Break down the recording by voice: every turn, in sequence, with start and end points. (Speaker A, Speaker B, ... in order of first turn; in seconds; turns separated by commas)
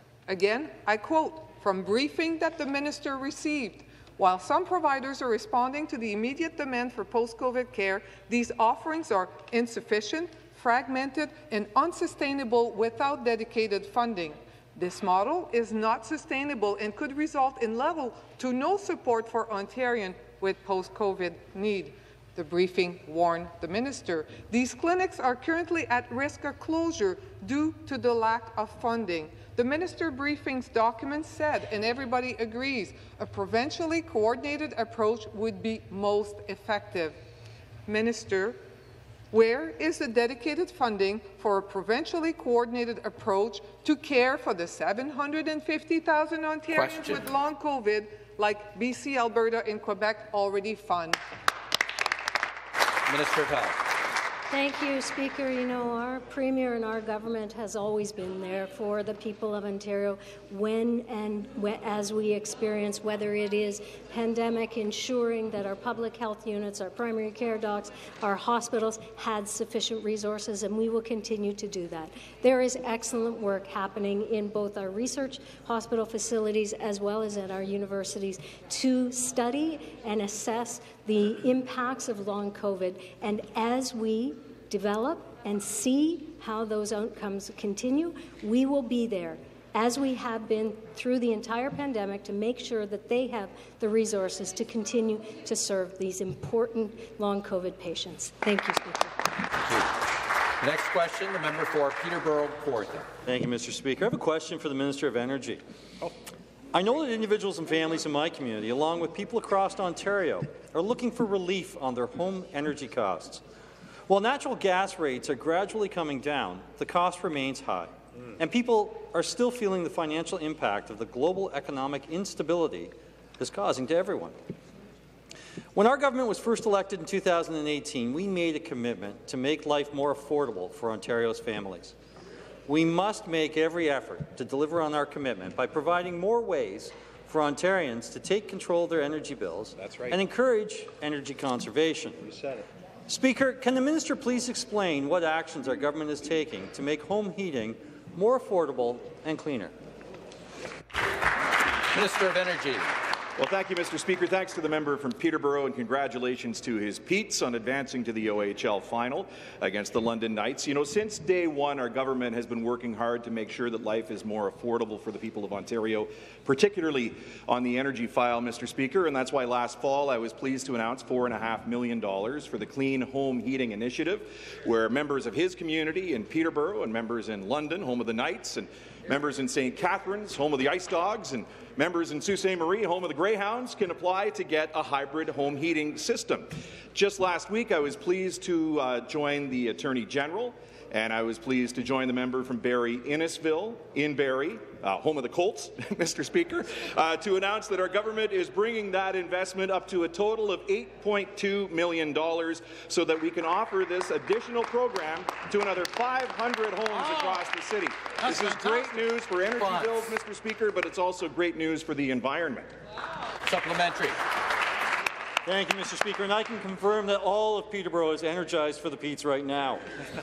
Speaker A: 0.3-37.2, Speaker A: 37.9-38.6, Speaker A: 39.3-51.2, Speaker B: 46.7-47.3, Speaker B: 53.1-53.8, Speaker C: 54.5-99.3, Speaker B: 99.6-99.9, Speaker B: 100.6-103.1, Speaker D: 103.3-105.6, Speaker D: 106.7-113.4, Speaker D: 114.1-124.4, Speaker D: 125.8-131.9, Speaker D: 132.7-142.3, Speaker D: 143.1-149.7, Speaker B: 151.9-152.9, Speaker E: 153.4-212.7, Speaker B: 208.3-208.9, Speaker B: 209.6-210.1, Speaker B: 213.4-214.2, Speaker D: 215.4-219.8